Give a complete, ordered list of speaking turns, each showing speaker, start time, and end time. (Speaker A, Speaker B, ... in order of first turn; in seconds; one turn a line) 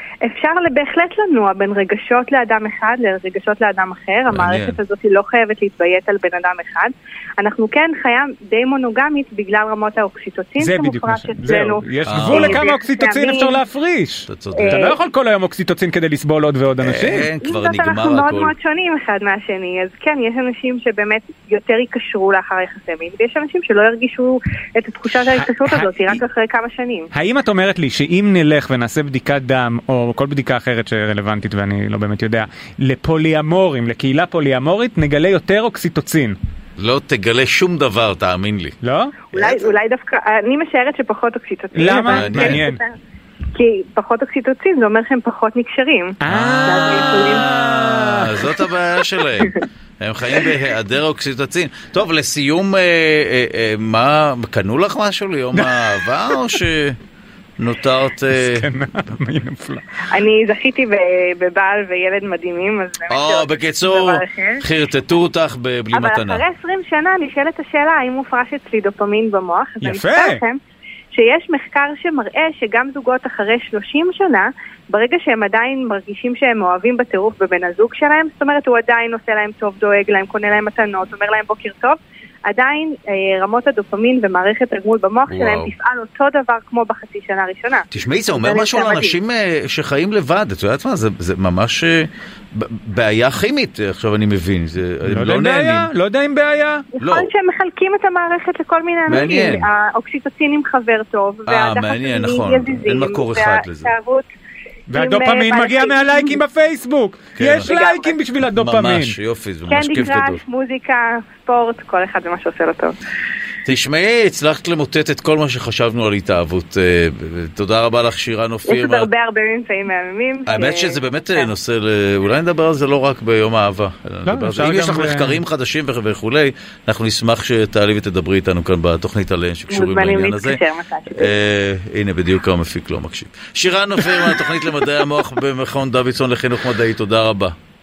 Speaker A: 0.2-13.6
Speaker B: 4.3-4.8
Speaker C: 10.6-17.3
Speaker B: 12.1-12.6
Speaker B: 14.3-14.8
Speaker A: 14.5-15.0
Speaker B: 16.8-18.5
Speaker A: 17.4-27.1
Speaker C: 25.1-26.2
Speaker C: 27.1-36.4
Speaker B: 36.8-38.8
Speaker C: 38.8-39.2
Speaker B: 39.3-39.7
Speaker A: 39.3-43.0
Speaker C: 41.7-42.8
Speaker B: 42.1-42.6
Speaker A: 43.5-47.5
Speaker C: 46.2-48.7
Speaker B: 46.3-46.7
Speaker B: 47.4-57.0
Speaker C: 55.5-56.6
Speaker B: 57.6-58.7
Speaker C: 58.3-59.9
Speaker A: 60.1-64.6
Speaker B: 63.1-66.4
Speaker A: 65.9-70.6
Speaker C: 69.8-70.4
Speaker A: 71.1-89.2
Speaker B: 85.3-85.7
Speaker B: 87.9-95.9
Speaker C: 95.0-96.9
Speaker A: 96.9-104.3
Speaker B: 97.0-97.3
Speaker B: 99.1-99.7
Speaker B: 101.5-103.9
Speaker C: 104.9-109.2
Speaker A: 104.9-106.4
Speaker B: 107.4-107.7
Speaker A: 107.7-108.2
Speaker B: 108.6-110.4
Speaker A: 109.7-112.9
Speaker B: 113.7-119.1
Speaker A: 118.7-121.5
Speaker B: 120.5-130.6
Speaker C: 124.3-125.4
Speaker A: 129.7-131.3
Speaker B: 131.2-137.5